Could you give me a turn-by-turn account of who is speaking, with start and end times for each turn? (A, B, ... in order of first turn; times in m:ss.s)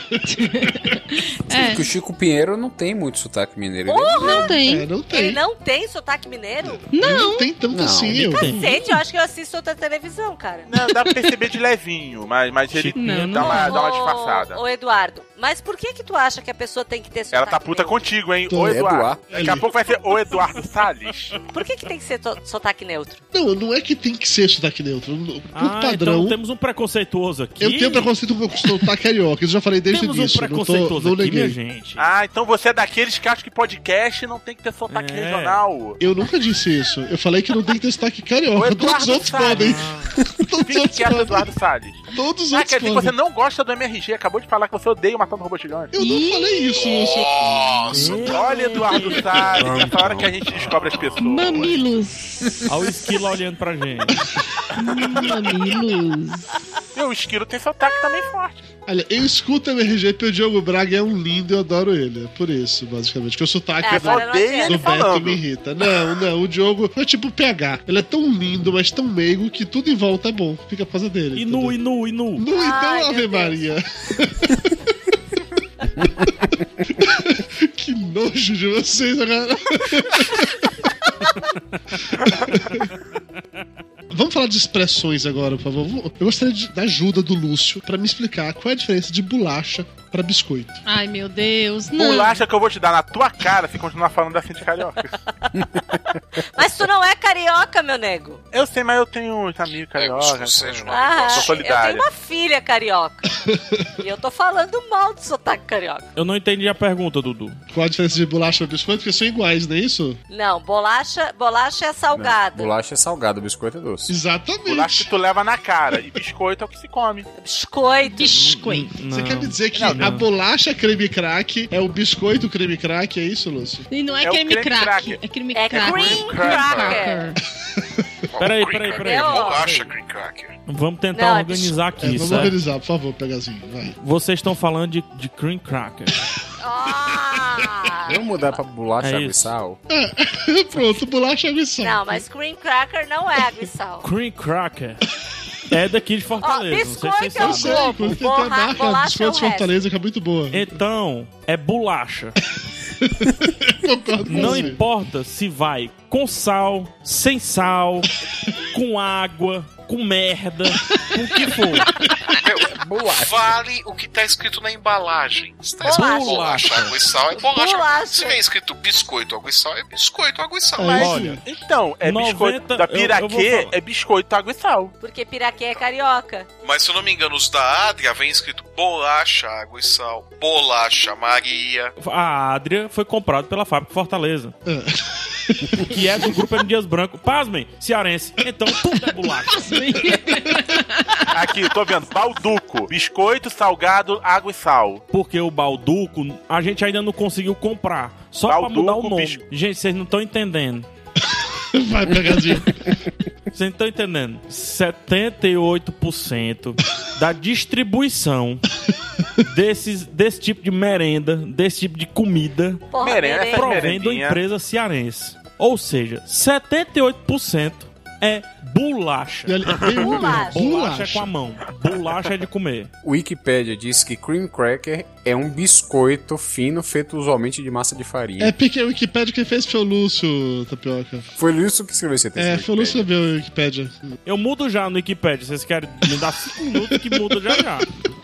0:00.3-0:01.8 A
0:01.5-0:04.4 B
0:03.9-0:04.6 C
0:04.2-0:04.9 A
0:04.5-0:05.4 D
0:05.1-0:07.0 C
0:06.9-0:07.5 A
0:07.0-0:08.5 D
0:07.7-0:08.2 B
0:08.1-0:08.8 E
0:08.3-0:10.7 C
0:10.7-0:14.6 F
0:12.7-0:13.7 E
0:13.0-0:13.7 A
0:13.4-0:18.1 C
0:17.3-0:21.4 F
0:18.5-0:19.7 D
0:18.6-0:19.2 B
0:21.5-0:23.2 C
0:23.3-0:26.4 D
0:25.6-0:28.1 E
0:27.6-0:31.6 D
0:29.9-0:32.0 E
0:32.0-0:36.0 F
0:34.9-0:35.6 E
0:36.0-0:41.5 D
0:38.6-0:39.8 F
0:39.5-0:40.1 E
0:40.6-0:45.9 F
0:42.1-0:43.1 D
0:45.9-0:48.3 D
0:46.0-0:46.5 A
0:46.7-0:48.3 G
0:47.9-0:49.5 E
0:48.2-0:51.8 F
0:48.5-0:48.8 A
0:49.6-0:50.4 B
0:51.2-0:52.6 A
0:52.7-0:54.2 E
0:54.8-0:56.5 A
0:55.1-0:55.9 D
0:57.0-0:58.6 F
0:58.9-1:11.8 D
1:03.8-1:05.0 C
1:03.8-1:05.4 F
1:11.4-1:12.5 E
1:12.4-1:14.9 D
1:12.5-1:13.7 C
1:16.9-1:20.9 D
1:22.2-1:22.9 D
1:24.1-1:30.8 D
1:30.9-1:32.4 A
1:32.0-1:35.1 F
1:36.5-1:38.4 C
1:38.5-1:42.1 F
1:39.9-1:41.8 G
1:40.9-1:43.2 C
1:43.3-1:43.9 D
1:44.0-1:46.1 C
1:46.2-1:47.6 E
1:47.7-1:50.2 D
1:50.3-1:52.7 C
1:52.1-1:54.1 B
1:54.1-1:55.1 D
1:54.7-1:57.3 F
1:57.4-1:58.4 C
1:58.1-1:58.9 A
1:58.4-2:00.3 E
1:59.1-2:03.9 D
2:03.9-2:07.4 A
2:04.2-2:05.2 F
2:05.5-2:07.3 C
2:05.7-2:07.0 F
2:08.3-2:10.6 G
2:08.4-2:09.8 E
2:09.0-2:09.9 C
2:10.7-2:12.6 E
2:11.1-2:11.8 C
2:12.0-2:14.0 D
2:14.0-2:16.1 E
2:16.6-2:18.6 C
2:18.1-2:19.8 B
2:19.0-2:19.5 E
2:19.9-2:22.2 D
2:21.8-2:24.1 C
2:24.0-2:25.1 E
2:25.7-2:28.0 E
2:26.4-2:29.8 C
2:27.4-2:30.8 D
2:30.5-2:32.4 E
2:33.0-2:34.8 D
2:34.3-2:38.1 E
2:38.7-2:41.9 E
2:42.4-2:51.0 G
2:42.6-2:43.4 B
2:45.8-2:46.7 C
2:45.8-2:47.0 E
2:47.3-2:48.4 C
2:50.8-2:51.4 D
2:50.8-2:55.0 F
2:51.0-2:51.4 E
2:52.0-2:53.7 E
2:55.0-2:56.5 C
2:56.6-3:01.9 G
3:02.0-3:04.6 E
3:04.7-3:06.3 D
3:05.9-3:10.1 E
3:09.5-3:11.3 A
3:11.3-3:15.0 F
3:15.1-3:20.9 E
3:18.5-3:19.4 F
3:21.4-3:22.8 D
3:23.5-3:28.6 E
3:29.4-3:32.8 E
3:32.9-3:34.0 C
3:33.0-3:34.4 F
3:33.5-3:42.9 E
3:39.5-3:41.3 D
3:39.9-3:40.6 C
3:43.0-3:48.6 B
3:48.4-3:51.3 D
3:51.4-3:53.1 B
3:52.4-3:54.2 D
3:54.3-3:57.9 E
3:57.1-3:57.4 D